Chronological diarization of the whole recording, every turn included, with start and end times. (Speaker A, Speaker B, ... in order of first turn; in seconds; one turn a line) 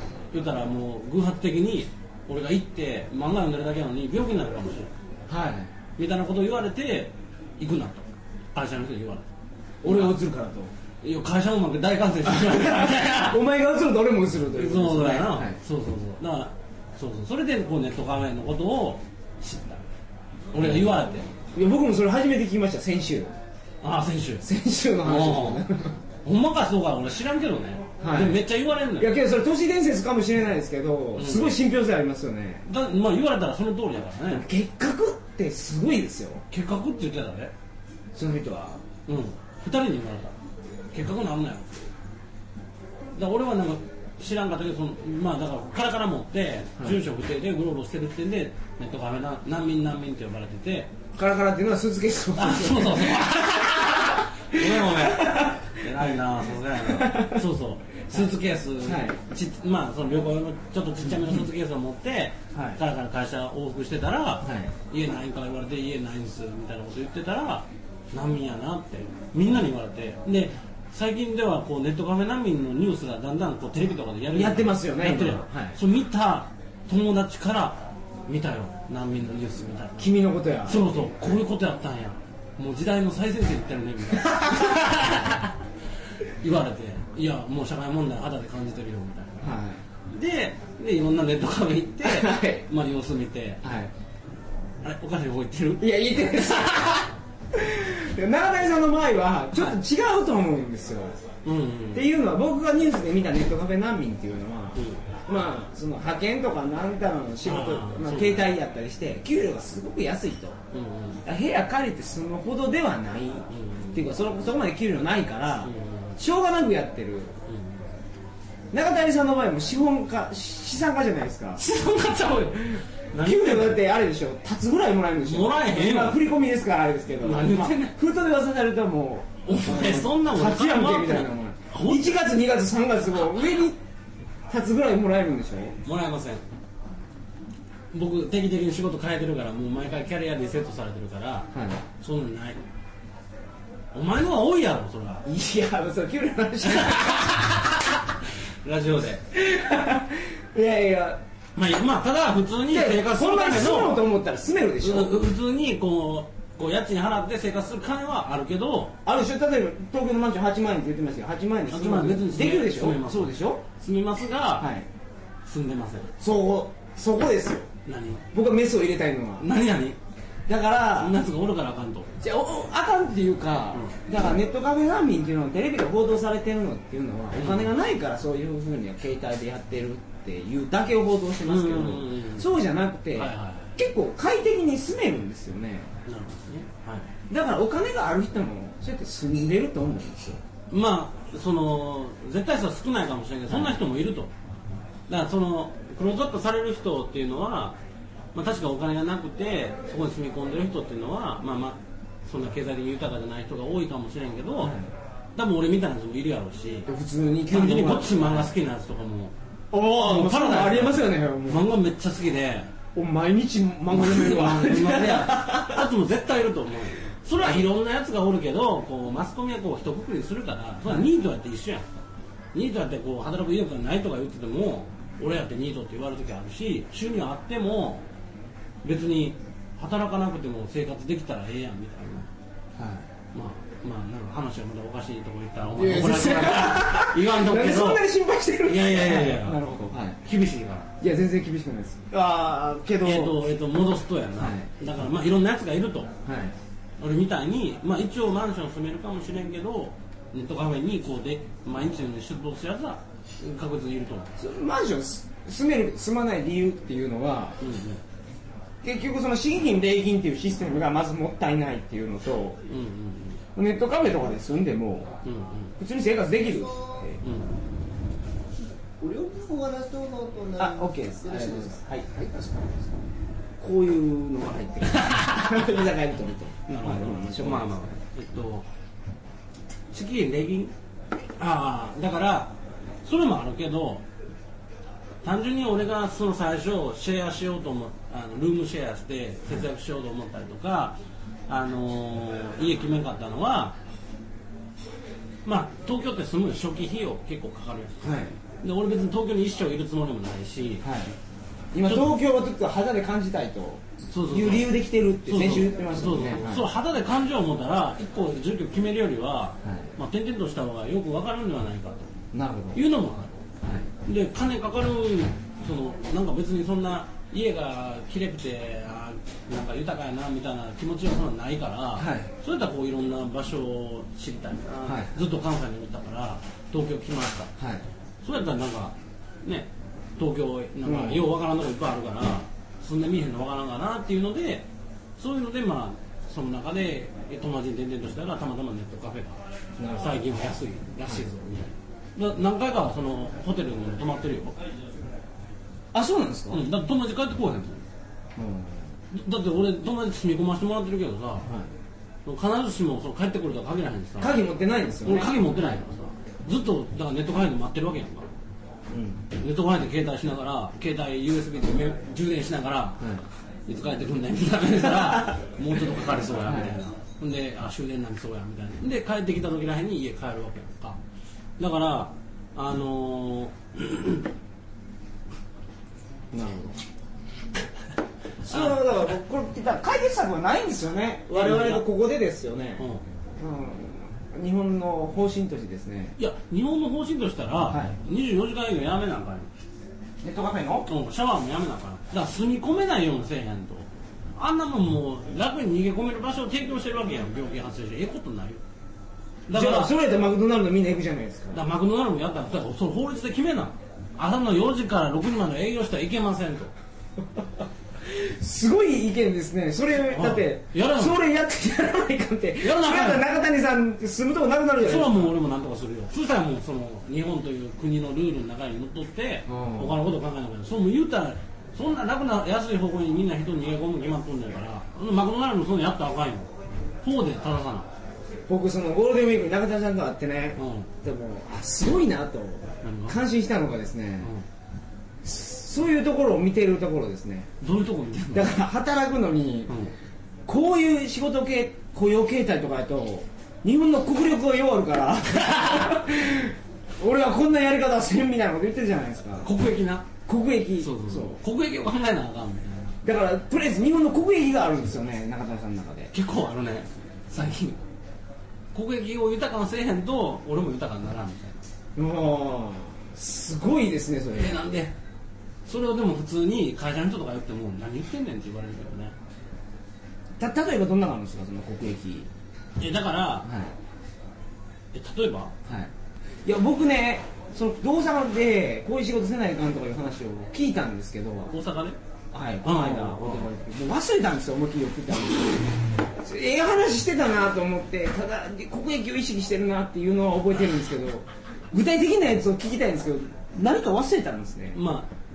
Speaker A: 0.3-4.9
Speaker B: 5.3-5.7
Speaker A: 6.0-9.3
Speaker B: 9.8-10.7
Speaker A: 9.8-10.2
Speaker A: 11.0-13.4
Speaker B: 12.3-15.6
Speaker A: 14.6-19.8
Speaker A: 20.5-21.3
Speaker B: 20.6-21.0
Speaker B: 21.5-23.3
Speaker A: 23.8-24.4
Speaker B: 24.4-26.0
Speaker A: 25.0-25.6
Speaker A: 26.2-29.1
Speaker B: 28.0-28.4
Speaker B: 28.9-32.7
Speaker A: 31.1-31.6
Speaker A: 32.6-34.4
Speaker B: 34.3-36.4
Speaker A: 36.5-37.5
Speaker B: 38.1-38.8
Speaker A: 39.1-40.3
Speaker A: 40.9-41.9
Speaker A: 43.1-50.9
Speaker B: 51.1-56.1
Speaker A: 52.4-80.1
Speaker B: 56.8-57.4
Speaker B: 58.1-59.2
Speaker B: 61.0-61.5
Speaker B: 62.5-62.8
Speaker B: 64.4-64.7
Speaker B: 74.3-75.8
Speaker B: 80.0-81.2
Speaker A: 80.7-85.5
Speaker A: 86.2-89.5
Speaker B: 89.4-89.8
Speaker A: 90.1-93.6
Speaker B: 92.0-92.7
Speaker B: 93.6-93.9
Speaker A: 94.8-97.0
Speaker B: 95.8-101.2
Speaker A: 101.4-102.0
Speaker B: 101.9-110.6
Speaker A: 104.8-105.0
Speaker A: 107.4-108.5
Speaker A: 110.7-111.2
Speaker B: 111.2-117.3
Speaker A: 113.5-114.1
Speaker A: 115.6-116.2
Speaker A: 117.5-117.8
Speaker B: 118.7-121.6
Speaker A: 121.6-123.8
Speaker B: 123.2-133.8
Speaker A: 125.2-126.2
Speaker A: 127.2-128.0
Speaker A: 129.4-132.2
Speaker B: 134.5-135.8
Speaker A: 135.8-136.4
Speaker A: 137.9-142.6
Speaker B: 141.5-141.8
Speaker A: 143.9-145.2
Speaker B: 145.2-147.3
Speaker A: 146.6-149.2
Speaker B: 149.3-151.2
Speaker A: 151.6-154.1
Speaker B: 152.7-155.2
Speaker A: 154.8-159.0
Speaker B: 159.0-163.6
Speaker A: 161.7-164.7
Speaker B: 164.6-164.9
Speaker A: 165.4-166.1
Speaker B: 166.2-167.7
Speaker A: 167.8-168.2
Speaker B: 168.3-169.4
Speaker A: 169.4-170.0
Speaker B: 170.5-171.1
Speaker A: 171.0-172.1
Speaker B: 172.2-185.9
Speaker A: 177.3-177.7
Speaker A: 181.4-182.5
Speaker A: 183.1-183.7
Speaker A: 186.1-187.1
Speaker B: 187.3-190.4
Speaker A: 190.7-194.3
Speaker A: 195.1-197.8
Speaker A: 198.3-204.8
Speaker B: 204.6-204.9
Speaker A: 205.3-206.9
Speaker B: 206.9-208.5
Speaker A: 207.5-212.7
Speaker B: 209.7-211.7
Speaker B: 212.9-215.8
Speaker A: 213.9-221.8
Speaker B: 217.4-217.6
Speaker A: 222.5-228.1
Speaker A: 228.8-232.3
Speaker B: 232.8-233.1
Speaker A: 233.3-238.1
Speaker B: 235.7-240.2
Speaker A: 238.6-239.7
Speaker A: 240.2-240.9
Speaker B: 241.0-243.5
Speaker A: 243.0-246.1
Speaker B: 244.4-244.7
Speaker B: 246.2-246.5
Speaker A: 247.0-254.3
Speaker B: 254.4-257.6
Speaker A: 257.6-258.0
Speaker B: 258.8-262.6
Speaker A: 262.7-263.4
Speaker B: 263.5-265.1
Speaker A: 265.2-265.8
Speaker B: 265.8-267.2
Speaker A: 267.2-267.6
Speaker C: 269.0-270.6
Speaker B: 270.6-272.2
Speaker C: 272.2-272.6
Speaker B: 273.6-277.8
Speaker A: 274.9-275.7
Speaker A: 276.7-278.6
Speaker A: 279.9-280.7
Speaker A: 281.4-284.0
Speaker A: 285.2-290.9
Speaker A: 291.5-293.8
Speaker A: 295.4-300.9
Speaker B: 298.0-298.3
Speaker B: 300.8-301.1
Speaker B: 301.7-306.6
Speaker A: 301.9-302.1
Speaker A: 304.1-312.1
Speaker B: 309.6-309.9
Speaker B: 312.3-312.8
Speaker A: 312.7-313.4
Speaker B: 313.6-313.9
Speaker A: 314.0-327.5
Speaker B: 322.0-322.3
Speaker B: 324.8-325.1
Speaker B: 327.6-327.8
Speaker A: 328.2-334.6
Speaker B: 330.8-331.3
Speaker A: 335.2-339.4
Speaker B: 339.8-340.2
Speaker A: 339.9-344.6
Speaker B: 345.9-346.6
Speaker A: 346.5-347.8
Speaker B: 348.4-348.9
Speaker A: 349.1-351.5
Speaker B: 351.4-351.7
Speaker A: 352.2-354.4
Speaker B: 354.2-355.7
Speaker A: 355.0-358.3
Speaker B: 358.9-359.2
Speaker A: 359.4-363.1
Speaker A: 363.7-371.0
Speaker B: 366.4-366.8
Speaker A: 371.6-374.3
Speaker B: 376.3-376.8
Speaker B: 378.4-386.2
Speaker A: 378.5-378.8
Speaker A: 381.3-381.8
Speaker A: 382.8-383.0
Speaker A: 386.2-389.5
Speaker B: 387.6-387.9
Speaker B: 390.2-390.9
Speaker A: 390.9-398.6
Speaker A: 399.5-399.9
Speaker B: 399.5-401.6
Speaker A: 401.5-406.7
Speaker B: 408.0-415.3
Speaker A: 410.1-411.2
Speaker A: 412.6-413.3
Speaker A: 414.8-426.5
Speaker B: 419.5-420.0
Speaker A: 427.0-427.9
Speaker B: 428.5-434.3
Speaker A: 430.6-430.9
Speaker A: 432.8-433.2
Speaker B: 435.2-437.5
Speaker A: 437.6-438.6
Speaker B: 438.3-439.7
Speaker B: 440.5-449.5
Speaker A: 445.5-445.8
Speaker A: 449.4-450.1
Speaker B: 450.2-451.4
Speaker A: 450.8-453.0
Speaker B: 453.0-456.1
Speaker A: 456.1-457.8
Speaker A: 458.7-461.6
Speaker B: 461.9-464.6
Speaker A: 464.4-464.9
Speaker A: 465.6-469.1
Speaker B: 470.4-472.3
Speaker A: 472.8-473.5
Speaker B: 473.4-473.7
Speaker A: 474.9-475.5
Speaker B: 476.4-481.5
Speaker A: 481.5-482.0
Speaker B: 482.3-485.6
Speaker A: 482.6-483.5
Speaker B: 486.2-494.8
Speaker A: 494.7-495.1